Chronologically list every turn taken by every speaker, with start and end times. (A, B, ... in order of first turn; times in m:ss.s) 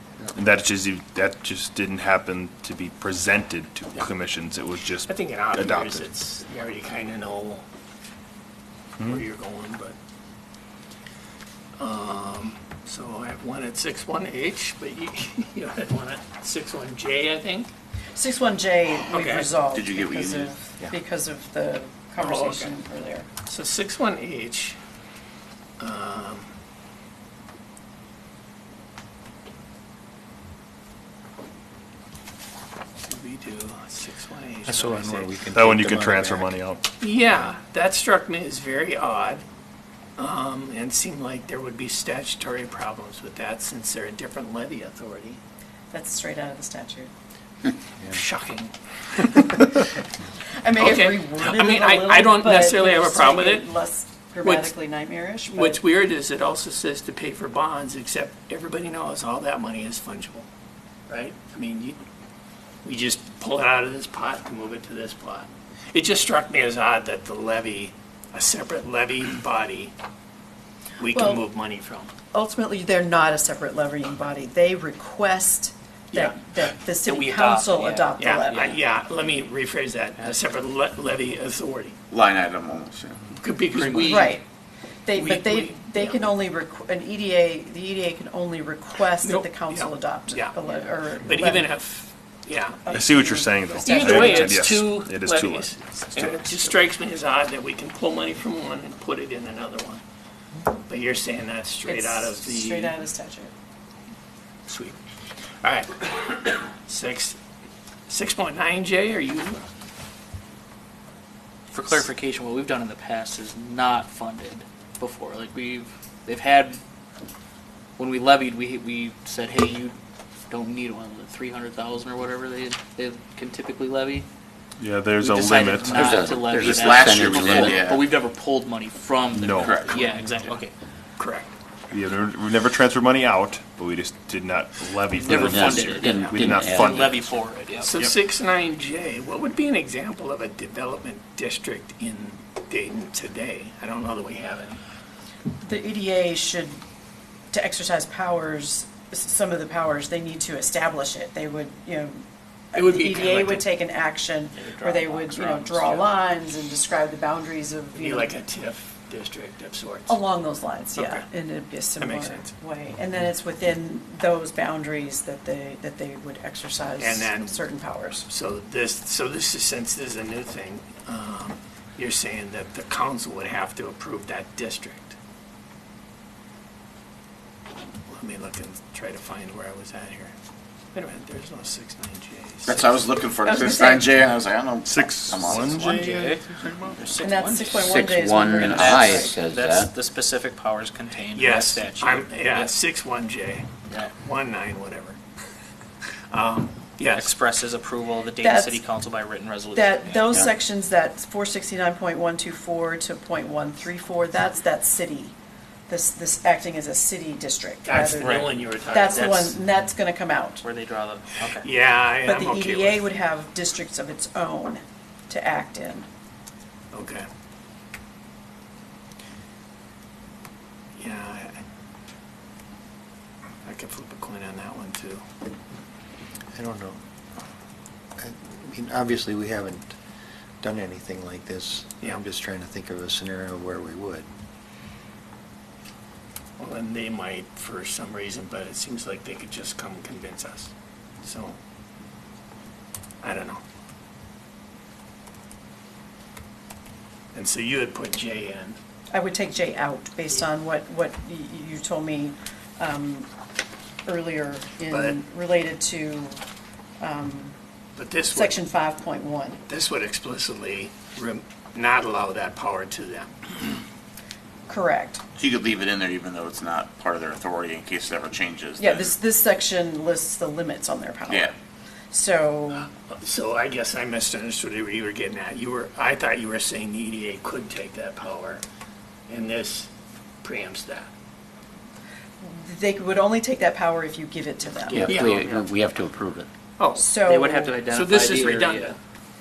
0:00.3-0:06.1 A
0:05.1-0:07.6 B
0:09.1-0:10.0 B
0:11.8-0:17.7 B
0:18.2-0:23.3 C
0:19.0-0:19.5 B
0:19.7-0:20.5 D
0:22.2-0:22.7 B
0:23.5-0:24.8 B
0:25.8-0:26.5 B
0:33.0-0:35.3 B
0:34.6-0:36.6 E
0:35.5-0:36.8 A
0:37.0-0:39.4 B
0:40.2-0:45.4 B
0:45.9-0:47.1 C
0:48.1-0:49.7 B
0:50.6-0:55.8 C
0:50.8-0:53.7 B
0:54.4-0:54.7 B
0:55.6-1:00.5 B
1:01.1-1:02.0 B
1:02.8-1:09.9 B
1:11.0-1:12.1 B
1:11.1-1:11.4 C
1:12.3-1:18.8 C
1:17.0-1:18.8 F
1:18.2-1:22.0 B
1:22.1-1:23.2 D
1:23.4-1:24.4 B
1:23.7-1:24.3 F
1:24.0-1:24.4 C
1:25.0-1:31.7 C
1:25.2-1:26.3 B
1:29.2-1:30.6 B
1:31.2-1:32.9 B
1:32.8-1:34.6 C
1:32.9-1:36.6 A
1:33.9-1:40.0 B
1:40.8-1:42.9 B
1:41.8-1:43.5 C
1:44.7-1:45.0 B
1:45.6-1:47.4 B
1:48.1-1:49.6 B
1:51.7-1:56.8 F
1:58.0-2:00.0 F
2:00.5-2:04.3 F
2:04.8-2:06.3 A
2:05.2-2:10.7 F
2:05.7-2:08.0 G
2:06.5-2:08.0 D
2:09.3-2:09.9 A
2:09.6-2:10.0 D
2:11.2-2:11.5 B
2:11.9-2:17.4 A
2:15.1-2:17.9 F
2:15.4-2:17.2 G
2:15.7-2:16.1 D
2:17.8-2:24.8 B
2:25.6-2:26.8 C
2:27.5-2:32.2 C
2:32.7-2:38.4 C
2:32.8-2:33.6 B
2:34.6-2:36.1 F
2:38.0-2:40.2 B
2:40.1-2:48.3 C
2:41.0-2:41.2 B
2:42.0-2:42.5 B
2:47.0-2:47.6 B
2:48.3-2:55.2 B
2:58.1-3:00.3 B
3:00.9-3:03.1 B
3:02.7-3:06.0 D
3:03.4-3:04.1 C
3:04.9-3:07.0 A
3:05.4-3:07.9 F
3:07.2-3:09.3 C
3:07.7-3:09.9 G
3:08.6-3:12.7 F
3:11.3-3:13.7 B
3:14.2-3:15.2 B
3:16.3-3:17.3 B
3:17.1-3:20.2 F
3:18.4-3:18.8 C
3:19.7-3:25.4 C
3:25.9-3:30.6 C
3:27.8-3:29.6 B
3:28.2-3:28.6 F
3:29.1-3:29.5 F
3:30.6-3:31.7 F
3:31.6-3:33.0 B
3:32.2-3:36.1 C
3:36.9-3:37.3 B
3:41.0-3:41.6 B
3:43.6-3:45.2 B
3:46.6-3:47.0 E
3:48.2-3:50.0 E
3:50.6-3:54.3 E
3:56.6-4:00.7 B
4:01.2-4:01.6 B
4:03.2-4:03.6 B
4:07.3-4:08.8 B
4:09.1-4:13.3 C
4:14.1-4:16.4 C
4:14.9-4:15.2 B
4:17.0-4:17.6 C
4:18.0-4:18.6 B
4:18.3-4:19.6 C
4:19.7-4:23.4 B
4:24.7-4:25.2 C
4:25.4-4:29.1 D
4:28.8-4:31.5 C
4:32.1-4:32.9 C
4:33.0-4:38.6 B
4:39.3-4:39.9 B
4:40.4-4:41.1 B
4:42.4-4:45.2 C
4:44.9-4:46.5 G
4:45.0-4:45.7 F
4:45.1-4:45.4 B
4:46.8-4:47.1 B
4:47.0-4:47.8 C
4:47.2-4:49.0 F
4:47.8-4:49.0 B